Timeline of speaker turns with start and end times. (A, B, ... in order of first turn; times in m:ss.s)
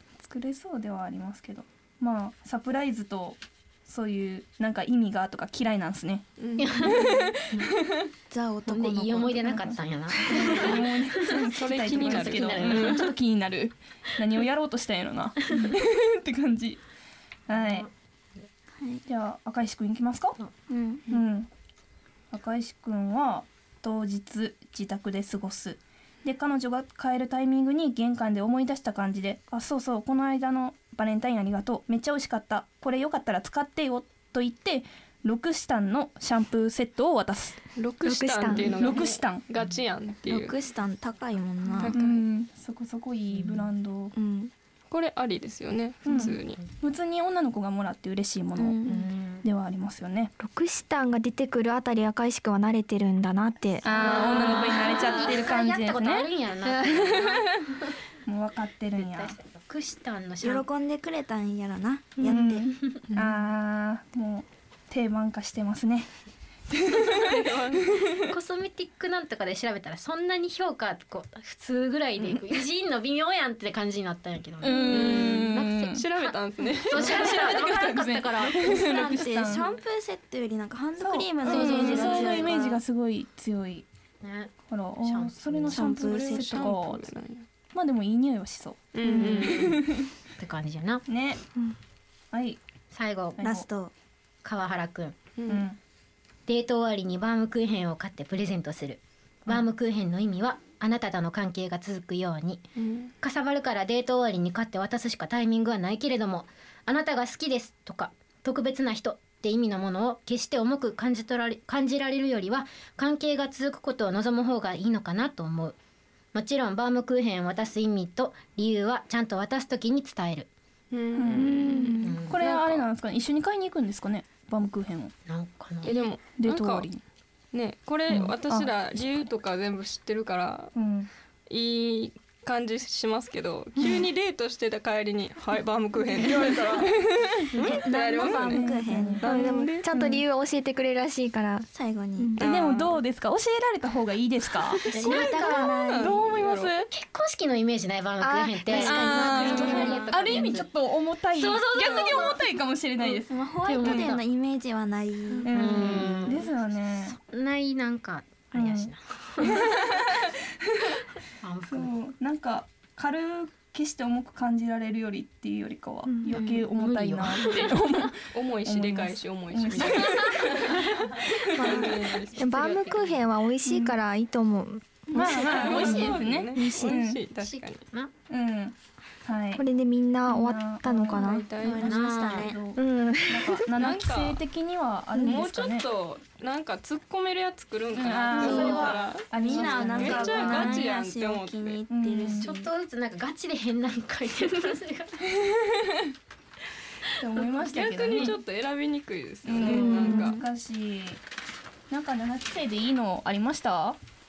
0:00.2-0:06.2 A
0:06.4-0:06.7 B
0:06.6-0:07.7 C
0:06.8-0:08.1 A
0:08.3-0:10.5 D
0:08.6-0:13.1 C
0:10.3-0:16.8 A
0:11.3-0:13.1 B
0:17.5-0:17.9 A
0:17.5-0:17.9 C
0:19.1-0:20.4 A
0:20.7-0:21.0 D
0:21.1-0:21.5 A
0:22.3-0:37.6 A
0:37.8-0:40.6 B
0:38.0-0:38.8 E
0:38.8-0:39.4 A
0:40.3-0:41.9 D
0:41.8-0:42.2 B
0:41.9-0:44.1 A
0:43.3-0:43.6 C
0:44.1-0:44.5 D
0:44.9-0:46.6 B
0:46.0-0:50.3 A
0:48.6-0:48.9 D
0:48.9-0:49.4 C
0:50.4-0:53.9 E
0:53.8-0:57.9 C
0:53.8-0:56.3 A
0:54.1-0:54.9 B
0:58.2-0:59.3 A
0:59.0-1:00.6 C
1:00.4-1:02.7 D
1:02.2-1:02.5 E
1:02.2-1:06.1 A
1:02.7-1:03.0 C
1:06.7-1:08.3 A
1:07.1-1:08.0 B
1:08.3-1:16.0 C
1:14.6-1:16.0 A
1:14.9-1:17.8 B
1:16.8-1:18.8 C
1:17.0-1:19.6 A
1:18.5-1:22.8 D
1:21.0-1:23.8 A
1:21.4-1:22.6 C
1:24.2-1:26.0 C
1:24.7-1:27.1 A
1:25.7-1:26.7 D
1:25.9-1:27.4 B
1:27.7-1:30.1 A
1:28.9-1:29.8 B
1:29.0-1:29.8 C
1:30.4-1:31.0 C
1:31.1-1:31.4 A
1:32.3-1:32.6 A
1:32.9-1:33.4 C
1:33.4-1:33.7 A
1:33.4-1:33.9 D
1:34.4-1:35.2 C
1:35.4-1:35.6 B
1:35.5-1:35.8 A
1:36.5-1:42.6 C
1:42.8-1:43.1 B
1:43.2-1:55.8 C
1:56.3-2:00.5 C
2:00.9-2:02.9 B
2:01.1-2:05.1 A
2:01.4-2:02.2 E
2:02.0-2:02.4 C
2:05.3-2:05.9 C
2:05.8-2:06.9 B
2:05.8-2:07.0 A
2:07.5-2:10.7 B
2:08.1-2:08.7 A
2:10.8-2:11.1 A
2:11.5-2:17.0 B
2:16.1-2:17.5 A
2:17.5-2:17.8 C
2:17.6-2:19.9 B
2:17.6-2:19.2 D
2:18.2-2:20.2 A
2:19.2-2:22.4 E
2:21.7-2:22.4 D
2:22.4-2:23.0 B
2:22.4-2:26.9 A
2:24.8-2:26.8 B
2:24.9-2:25.7 C
2:25.1-2:26.0 D
2:26.9-2:30.7 C
2:28.2-2:30.3 E
2:28.7-2:34.2 A
2:29.3-2:30.1 B
2:29.4-2:30.0 D
2:31.4-2:32.4 C
2:31.8-2:32.3 D
2:33.0-2:35.5 D
2:33.6-2:34.2 C
2:35.4-2:37.2 A
2:35.5-2:36.5 C
2:35.8-2:36.2 B
2:37.1-2:39.7 C
2:38.5-2:41.0 A
2:41.4-2:41.9 C
2:41.7-2:51.8 A
2:46.1-2:46.4 E
2:46.3-2:47.8 C
2:48.3-2:50.8 B
2:51.4-2:53.0 B
2:52.1-2:53.2 C
2:52.4-2:57.0 E
2:53.6-2:54.0 A
2:55.1-2:57.2 A
2:55.1-2:57.8 B
2:55.6-2:56.0 C
2:57.4-2:58.1 C
2:58.3-2:59.6 A
2:59.5-3:01.4 E
3:00.3-3:05.9 A
3:01.1-3:01.9 B
3:01.2-3:02.7 D
3:01.8-3:02.5 C
3:02.7-3:03.7 E
3:03.8-3:04.4 B
3:05.2-3:11.8 B
3:07.9-3:10.9 A
3:08.3-3:10.6 C
3:08.5-3:08.8 D
3:09.4-3:12.7 D
3:11.9-3:12.5 A
3:12.4-3:15.2 C
3:15.4-3:16.0 A
3:17.2-3:18.4 A
3:17.6-3:20.4 B
3:19.4-3:21.2 A
3:19.7-3:20.2 E
3:19.8-3:20.4 D
3:21.9-3:24.0 A